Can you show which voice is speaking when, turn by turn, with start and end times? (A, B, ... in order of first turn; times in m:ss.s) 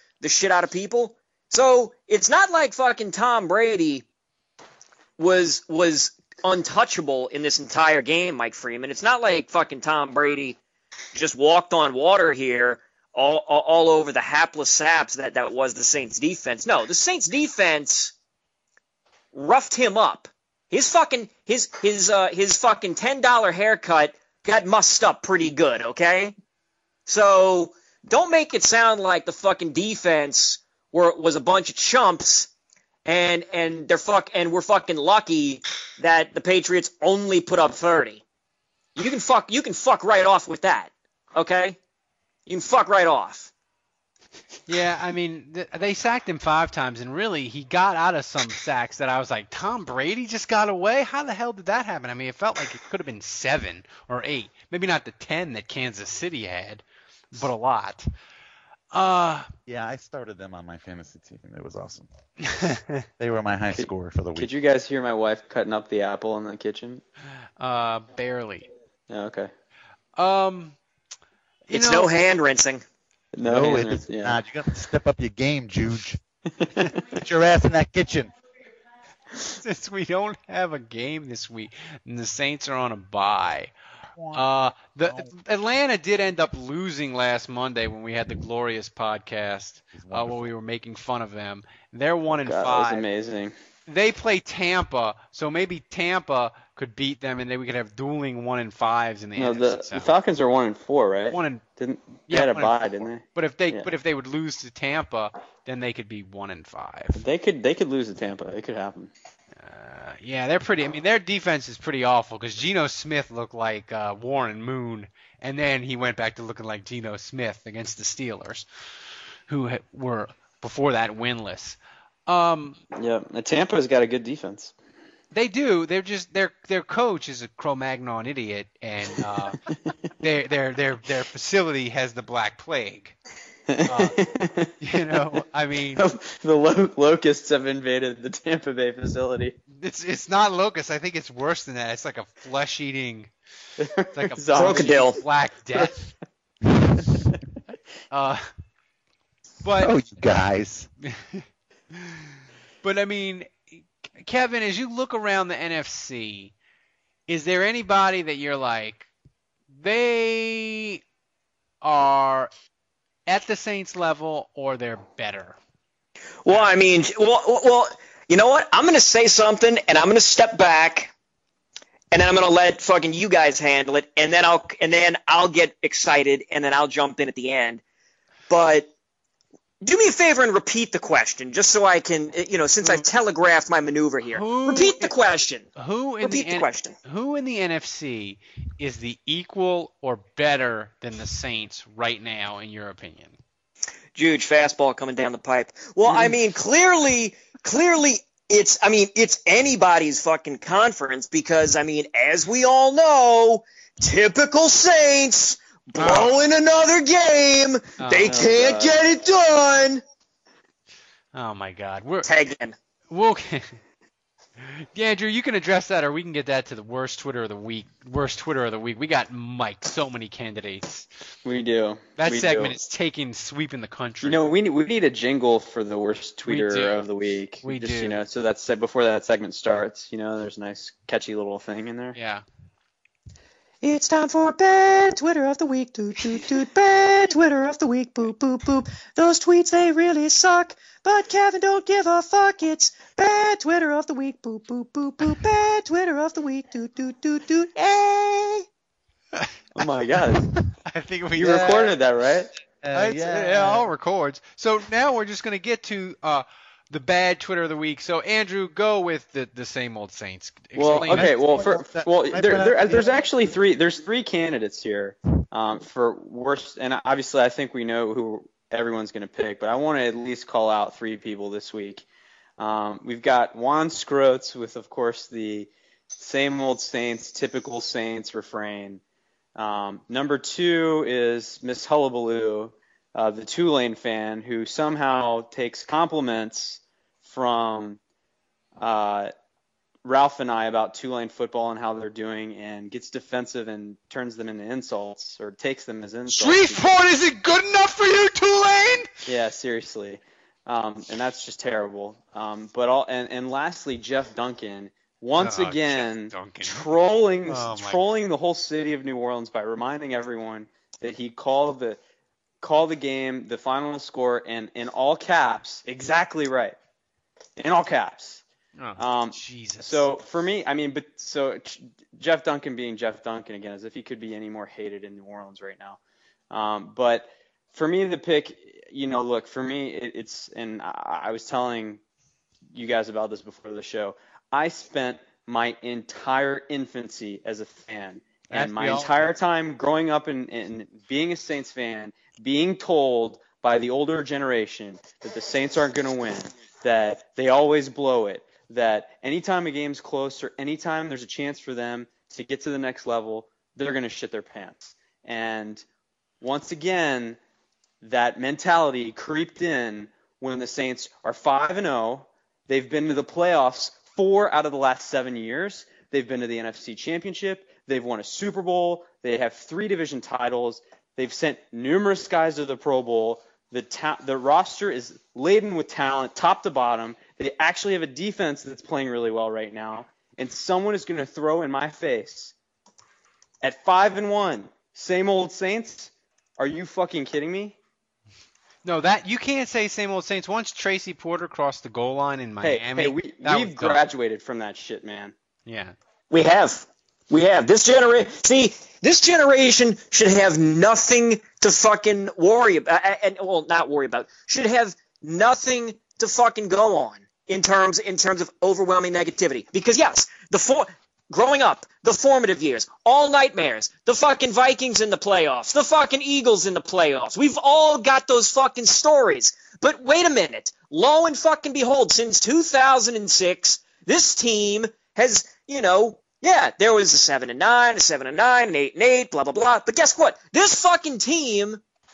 0:00.2-0:04.1 A
0:05.2-0:10.6 A
0:11.1-0:18.1 A
0:19.3-0:26.3 A
0:27.1-0:32.5 A
0:33.0-0:38.2 A
0:39.0-0:41.8 A
0:42.5-0:43.5 A
0:44.7-0:58.1 B
0:58.9-0:59.5 B
0:59.6-1:02.1 C
1:02.5-1:03.0 B
1:03.2-1:04.5 C
1:03.7-1:07.0 D
1:07.6-1:08.7 B
1:09.1-1:09.5 D
1:10.2-1:10.8 B
1:11.7-1:12.1 B
1:11.7-1:12.8 A
1:13.3-1:14.4 D
1:13.4-1:16.2 C
1:16.5-1:16.9 D
1:17.2-1:18.3 C
1:19.6-1:23.7 B
1:24.1-1:24.4 C
1:24.3-1:33.1 B
1:29.9-1:30.5 C
1:32.3-1:33.5 D
1:33.9-1:40.2 B
1:39.4-1:43.9 D
1:41.3-1:41.6 B
1:42.3-1:47.2 B
1:47.2-1:49.1 D
1:49.6-1:58.6 B
1:59.5-2:02.8 B
2:03.0-2:04.7 D
2:05.3-2:09.6 B
2:10.2-2:13.1 B
2:13.7-2:15.3 D
2:13.9-2:14.2 B
2:14.8-2:16.0 B
2:16.0-2:19.6 D
2:19.7-2:23.3 B
2:23.8-2:25.2 D
2:24.2-2:26.1 B
2:24.5-2:25.2 A
2:28.1-2:28.5 B
2:29.6-2:29.9 B
2:29.8-2:30.9 C
2:31.1-2:31.4 B
2:31.9-2:32.2 B
2:32.8-2:36.5 B
2:37.3-2:39.1 B
2:39.7-2:41.0 B
2:41.8-2:42.5 B
2:43.3-2:45.6 B
2:46.4-2:51.1 A
2:52.1-2:57.8 A
2:58.5-2:58.9 A
2:59.8-3:05.7 A
3:02.8-3:03.1 B
3:04.2-3:05.1 B
3:05.8-3:13.4 B
3:06.2-3:07.0 A
3:14.1-3:30.0 A
3:16.0-3:16.3 D
3:26.0-3:26.3 B
3:28.0-3:28.4 B
3:28.2-3:29.0 D
3:31.3-3:32.3 B
3:32.2-3:32.7 A
3:33.1-3:33.8 B
3:34.6-3:41.1 B
3:41.4-3:42.8 D
3:42.2-3:44.4 B
3:44.2-3:52.2 D
3:46.4-3:47.0 B
3:47.6-3:48.2 B
3:52.1-3:52.4 B
3:53.8-4:08.6 A
4:09.8-4:10.4 D
4:10.9-4:11.8 B
4:11.4-4:12.5 D
4:11.4-4:11.9 C
4:12.8-4:13.9 C
4:12.9-4:21.7 B
4:20.8-4:32.0 D
4:21.1-4:23.2 C
4:32.6-4:39.0 D
4:39.6-4:48.0 D
4:48.8-4:49.3 D
4:50.0-4:56.9 D
4:56.3-4:59.1 B
4:59.3-5:12.0 D
5:05.4-5:06.9 B
5:07.5-5:08.0 B
5:12.6-5:16.8 D
5:17.6-5:18.4 D
5:18.8-5:20.0 B
5:19.0-5:26.0 D
5:26.5-5:32.0 D
5:32.7-5:55.8 D
5:38.5-5:39.2 B
5:56.4-5:57.4 D
5:58.0-6:22.5 D
6:23.6-6:27.8 D
6:28.8-6:34.1 B
6:32.6-6:35.3 D
6:35.6-6:36.0 B
6:36.3-7:11.8 A